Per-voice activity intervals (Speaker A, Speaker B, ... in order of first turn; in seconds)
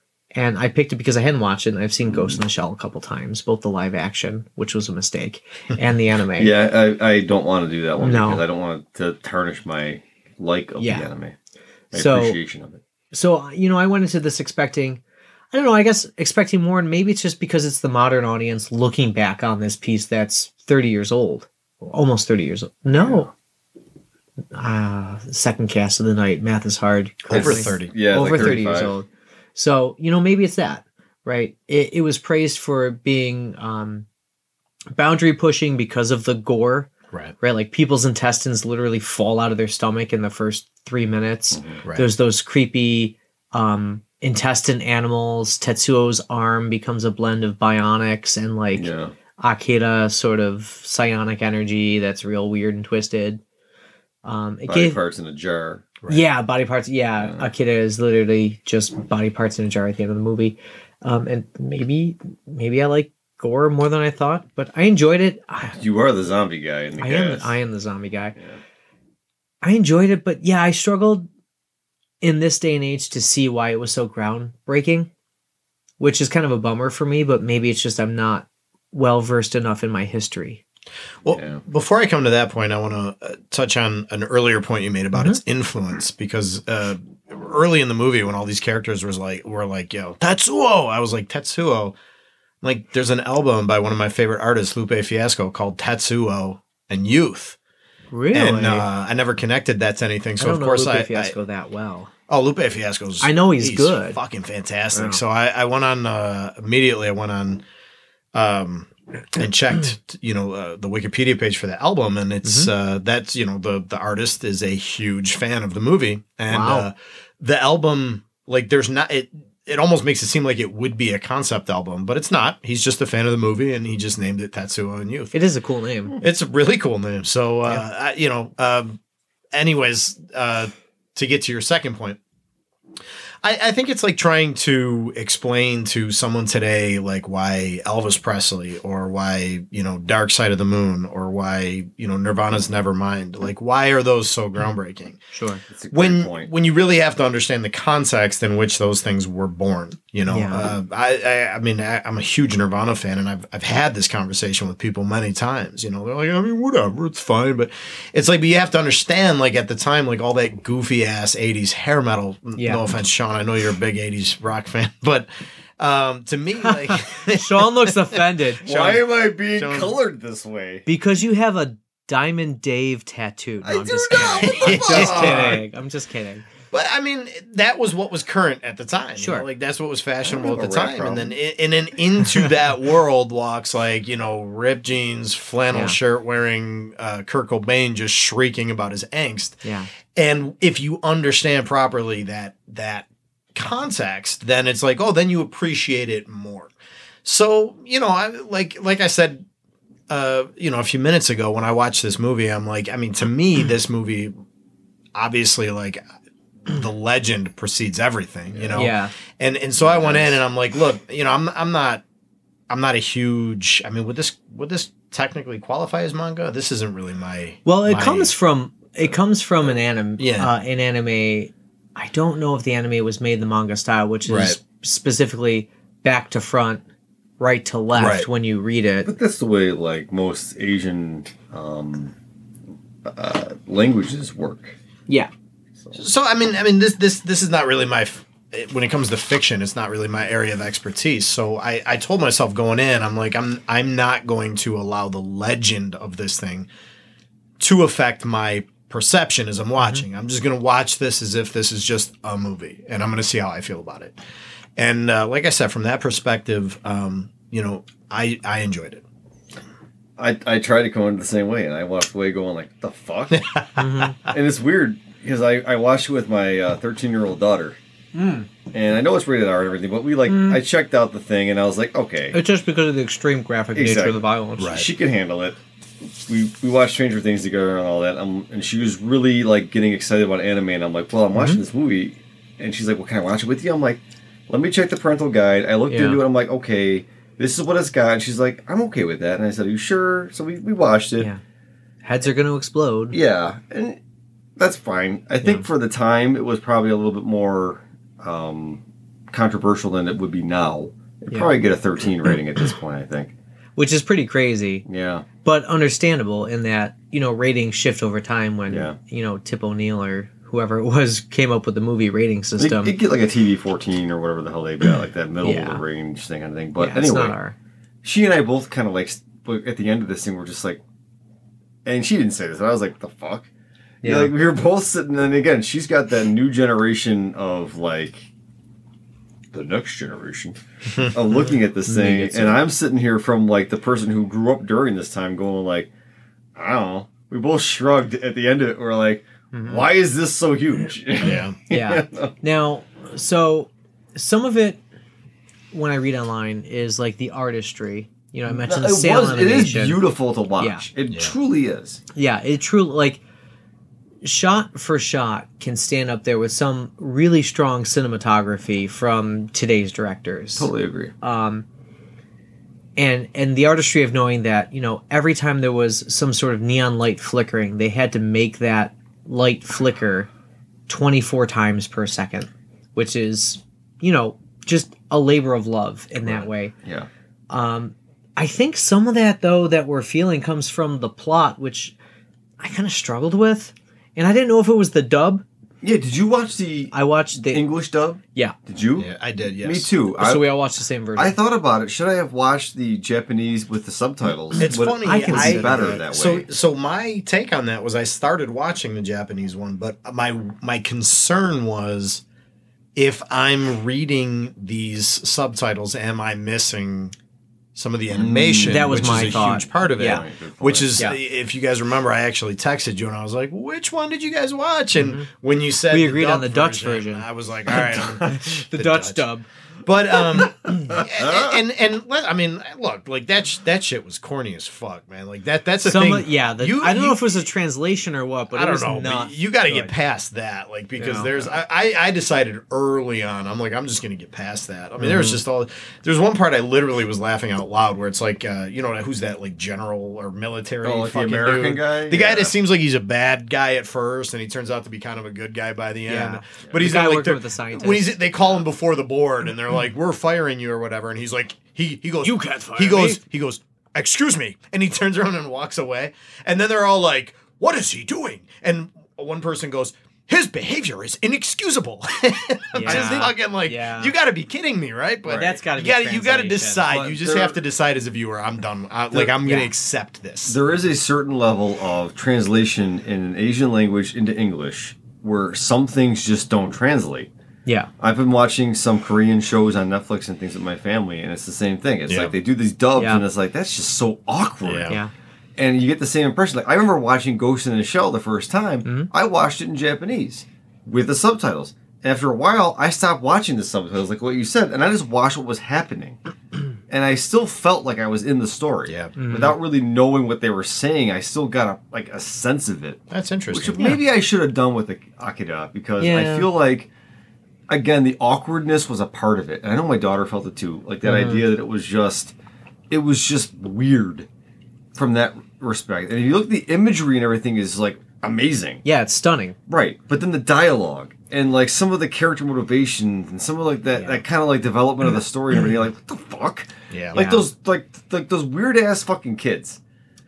Speaker A: 0.3-6.5, 8.0-8.4, 10.8-11.1, 11.9-12.4, 13.1-15.0, 15.5-23.3, 24.5-34.0, 34.9-36.9, 37.4-53.4, 54.2-55.0, 56.1-65.8, 67.0-68.3, 69.6-71.3, 72.2-75.1, 76.0-80.6, 85.1-85.4, 98.1-98.9, 100.4-102.1, 103.2-104.2, 104.9-105.2, 112.4-112.7, 116.5-116.9, 125.3-126.2, 145.3-145.6, 150.3-150.7, 162.6-162.9, 166.6-169.0, 170.8-176.4, 179.2-179.4, 185.7-186.0, 189.6-189.9, 208.7-209.1, 217.6-226.8, 227.4-229.1, 249.8-250.0, 263.8-264.2, 268.1-268.5, 270.3-270.6, 272.3-274.8, 281.3-281.6, 285.9-286.2, 292.0-293.1, 301.3-301.5, 303.8-304.8, 305.4-312.9, 315.4-315.8, 316.8-317.5, 324.0-324.3, 331.9-332.6, 339.5-339.9, 341.7-344.8, 345.7-350.0, 350.6-350.8, 352.1-353.2, 354.2-360.7, 361.2-361.6, 363.0-370.3, 370.9-376.7, 377.5-381.9, 382.6-385.4, 386.9-387.6, 390.2-391.3, 394.5-395.9, 408.6-410.2, 414.9-415.3, 415.9-419.4, 425.8-429.9, 431.0-431.4, 435.0-435.4, 446.1-448.1, 452.2-453.2, 462.7-464.1, 465.2-466.9, 469.4-469.7, 482.9-483.2, 488.8-489.1, 499.1-499.6, 506.0-506.5, 511.0-511.4, 518.8-519.5, 523.9-524.2, 527.1-527.4
Speaker B: 2.1-2.4, 6.4-11.3, 11.9-12.8, 22.9-23.3, 27.3-28.9, 41.5-41.8, 48.7-49.1, 54.7-55.9, 57.2-57.5, 65.7-67.5, 81.3-81.6, 145.7-146.5, 168.6-170.8, 173.6-175.6, 180.3-181.3, 208.5-208.9, 209.8-210.3, 229.0-232.1, 233.0-234.7, 260.2-263.5, 264.3-267.8, 268.7-272.4, 273.7-275.6, 276.2-291.3, 293.1-294.0, 294.6-303.3, 304.9-305.2, 308.7-308.9, 312.6-317.3, 318.0-320.8, 321.8-323.5, 324.0-328.3, 329.5-335.9, 336.6-342.3, 348.5-352.0, 360.6-361.1, 376.2-377.1, 385.8-389.1, 389.6-390.5, 391.1-396.4, 408.1-411.0, 420.4-421.6, 440.8-442.5, 462.8-463.2, 466.9-467.6, 470.4-477.3, 478.0-485.0, 485.6-496.2, 496.9-506.9, 507.7-512.3, 512.9-514.3, 514.9-518.8, 519.7-529.8
Speaker C: 27.3-28.5, 81.2-91.9, 92.6-97.6, 98.3-101.3, 102.3-107.6, 108.3-125.3, 126.2-129.0, 129.5-132.2, 133.4-145.2, 145.9-165.3, 165.8-168.2, 169.5-169.9, 174.2-175.6, 176.7-196.7, 197.2-199.4, 200.1-204.3, 205.1-206.0, 206.7-212.0, 212.7-218.3, 220.2-220.5, 224.2-224.6, 227.9-228.3, 235.9-246.7, 247.6-254.2, 254.8-259.0, 263.3-264.3, 274.6-274.9, 341.2-341.6, 389.0-389.9, 394.6-402.2, 402.9-407.1, 407.7-419.2, 419.8-427.4, 428.5-470.6, 482.1-482.3, 484.6-485.0, 498.9-499.1, 503.1-503.9, 526.9-527.2